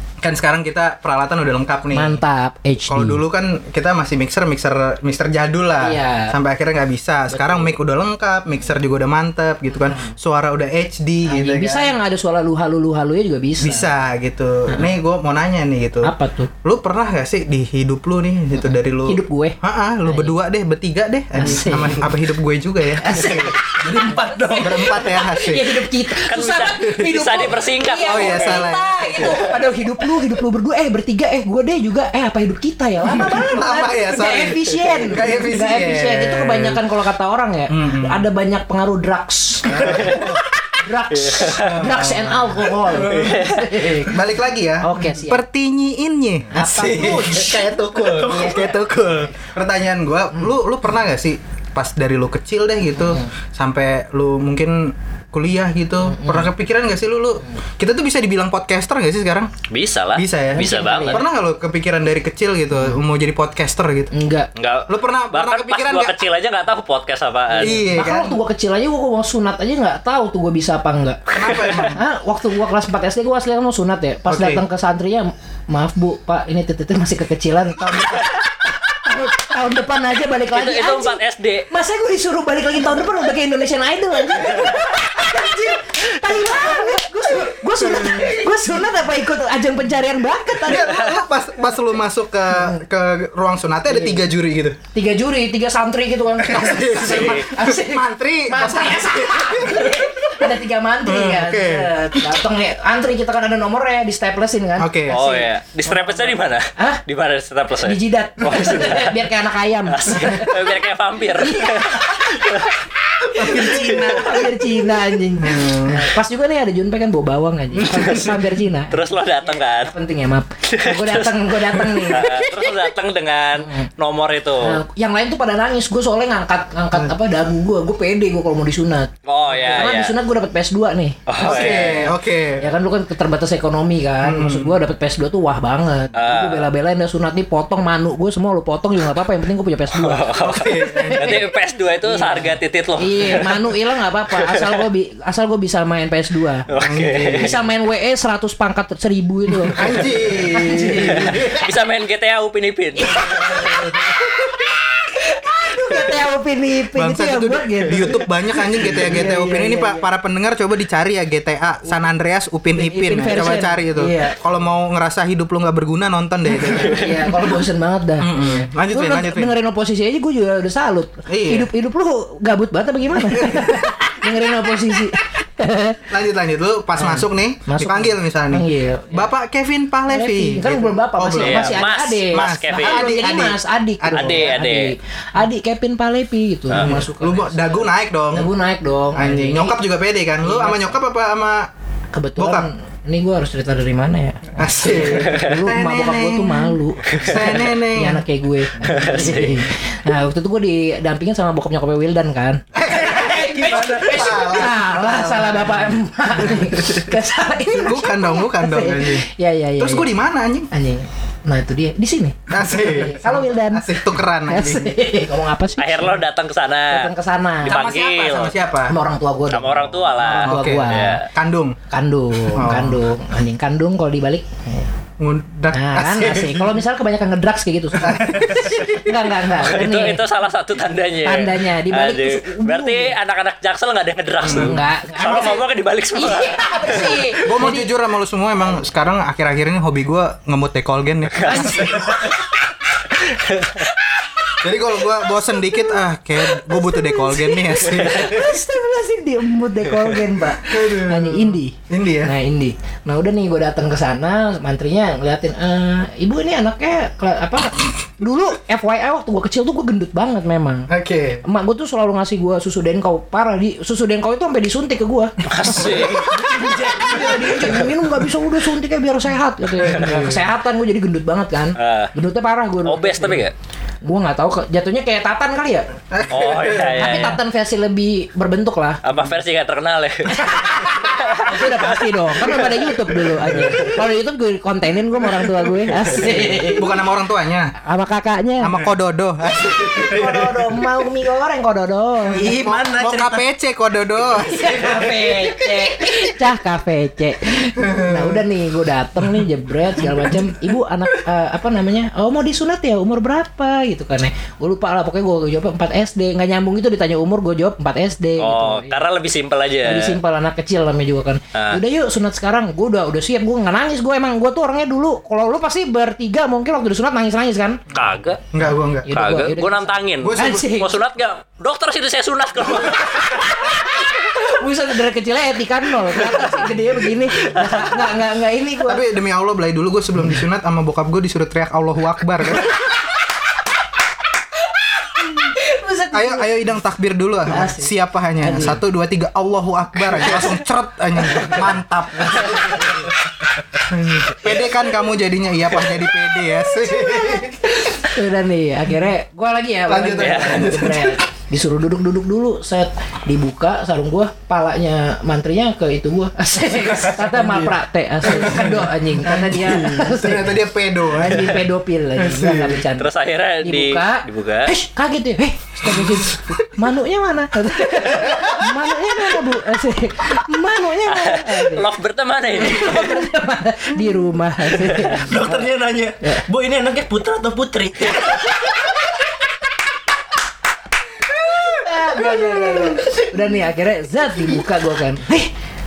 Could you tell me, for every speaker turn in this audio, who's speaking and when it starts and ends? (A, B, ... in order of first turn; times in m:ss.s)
0:00.2-0:02.2 A
0:01.9-0:03.2 B
0:02.9-0:11.9 A
0:05.8-0:06.3 B
0:07.3-0:07.7 B
0:09.9-0:10.1 B
0:11.2-0:13.9 B
0:13.6-0:16.1 A
0:16.0-0:16.5 B
0:16.6-0:23.5 A
0:19.0-0:20.3 B
0:21.3-0:22.1 B
0:23.0-0:44.2 B
0:23.8-0:24.8 C
0:24.5-0:25.9 A
0:26.3-0:28.7 D
0:28.0-0:29.4 A
0:33.1-0:36.8 A
0:37.7-0:38.2 A
0:39.7-0:40.4 A
0:39.9-0:40.2 D
0:41.1-0:41.9 D
0:41.5-0:43.3 A
0:43.0-0:43.9 D
0:44.1-0:59.5 A
0:44.8-0:45.4 B
0:46.5-0:47.6 B
0:46.9-0:48.8 C
0:48.2-0:48.7 B
0:53.0-0:53.3 B
0:56.0-0:56.5 B
0:59.7-1:01.3 D
1:00.1-1:04.1 A
1:00.5-1:01.2 B
1:04.1-1:04.5 B
1:04.5-1:07.8 D
1:04.9-1:06.2 A
1:07.5-1:08.4 A
1:07.6-1:11.2 B
1:11.3-1:12.0 A
1:11.4-1:11.9 D
1:11.9-1:21.2 B
1:14.3-1:14.6 A
1:20.5-1:21.7 D
1:21.7-1:31.1 B
1:27.8-1:28.4 A
1:30.6-1:34.8 A
1:33.9-1:34.3 B
1:34.9-1:47.0 B
1:36.4-1:40.4 A
1:37.1-1:37.4 D
1:41.0-1:42.2 A
1:44.8-1:45.2 A
1:45.1-1:49.2 D
1:47.8-1:50.6 B
1:49.9-1:52.8 D
1:51.4-1:52.5 B
1:53.2-2:02.3 B
1:53.2-1:54.5 A
1:53.5-1:54.1 D
1:55.4-1:56.1 A
1:57.7-1:58.4 A
1:57.9-1:58.4 D
1:58.9-1:59.9 D
2:00.7-2:04.8 D
2:03.6-2:03.9 B
2:04.6-2:12.1 B
2:09.2-2:10.2 D
2:11.3-2:12.1 D
2:11.4-2:12.7 A
2:12.6-2:26.6 B
2:14.2-2:14.7 A
2:16.1-2:16.7 D
2:19.9-2:23.7 D
2:20.3-2:21.4 A
2:24.3-2:24.8 D
2:26.7-2:27.5 D
2:26.7-2:27.6 A
2:27.3-2:31.7 B
2:29.7-2:31.6 A
2:31.1-2:33.9 D
2:33.0-2:40.1 B
2:36.9-2:47.5 A
2:42.7-2:44.4 B
2:46.7-2:56.0 B
2:48.2-2:49.5 A
2:51.3-2:51.7 A
2:53.2-2:53.9 A
2:56.1-3:04.5 A
2:57.0-2:59.3 B
3:00.1-3:07.8 B
3:01.3-3:03.1 D
3:04.1-3:04.9 D
3:06.7-3:08.5 A
3:08.3-3:09.8 B
3:09.1-3:11.7 A
3:10.4-3:11.0 B
3:12.1-3:30.1 B
3:12.4-3:12.7 A
3:14.6-3:18.2 A
3:17.1-3:17.4 D
3:18.8-3:19.5 A
3:18.8-3:19.6 D
3:22.7-3:27.1 A
3:23.2-3:24.2 C
3:27.7-3:29.3 A
3:29.8-3:30.7 A
3:30.7-3:36.2 B
3:32.5-3:34.9 A
3:35.8-3:37.1 D
3:36.9-3:37.8 B
3:37.6-3:38.9 A
3:37.6-3:38.5 D
3:38.9-3:41.2 B
3:39.5-3:41.3 D
3:40.3-3:41.8 A
3:41.9-3:44.9 B
3:42.5-3:43.0 A
3:45.2-3:46.8 A
3:45.7-3:50.2 B
3:48.0-3:49.0 A
3:49.6-3:57.3 D
3:51.2-3:53.2 B
3:54.4-3:54.8 A
3:54.5-3:57.9 B
3:57.4-4:02.3 A
4:01.4-4:02.4 D
4:01.4-4:02.4 B
4:03.2-4:03.8 D
4:04.0-4:04.5 B
4:04.6-4:08.4 A
4:05.4-4:05.9 B
4:06.5-4:20.9 B
4:10.6-4:12.3 A
4:20.9-4:21.4 A
4:21.4-4:33.4 B
4:25.4-4:26.4 D
4:25.9-4:27.7 A
4:29.8-4:30.4 A
4:31.8-4:32.1 D
4:32.8-4:33.5 D
4:34.0-4:35.9 B
4:36.1-4:37.1 A
4:36.3-4:37.4 D
4:36.9-4:39.0 B
4:39.0-4:42.8 D
4:40.3-4:46.9 B
4:43.5-4:43.9 A
4:46.4-4:47.7 A
4:47.8-4:48.8 B
4:48.6-4:50.4 A
4:49.8-4:50.6 C
4:50.1-4:52.5 B
4:52.3-4:56.2 A
4:52.3-4:53.4 C
4:54.4-5:09.0 B
4:57.8-4:58.4 A
5:08.4-5:10.2 D
5:09.8-5:17.8 B
5:11.5-5:11.8 D
5:17.9-5:18.4 D
5:18.5-5:19.1 A
5:19.0-5:20.9 B
5:19.1-5:23.4 D
5:20.2-5:20.7 A
5:22.9-5:29.0 B
5:27.4-5:27.9 D
5:28.8-5:32.8 A
5:35.0-5:36.7 B
5:36.1-5:42.8 A
5:37.5-5:38.8 B
5:42.4-5:43.0 B
5:43.8-5:47.8 A
5:46.9-6:03.1 B
5:49.9-5:51.2 A
5:50.2-5:50.7 D
5:57.4-5:57.7 A
5:58.2-6:01.6 A
6:02.2-6:02.8 A
6:03.0-6:04.7 D
6:03.6-6:11.8 B
6:05.8-6:06.6 A
6:08.3-6:08.6 A
6:11.1-6:13.3 D
6:12.6-6:15.7 B
6:14.8-6:15.2 D
6:15.1-6:18.5 C
6:21.6-6:25.5 B
6:22.1-6:23.2 A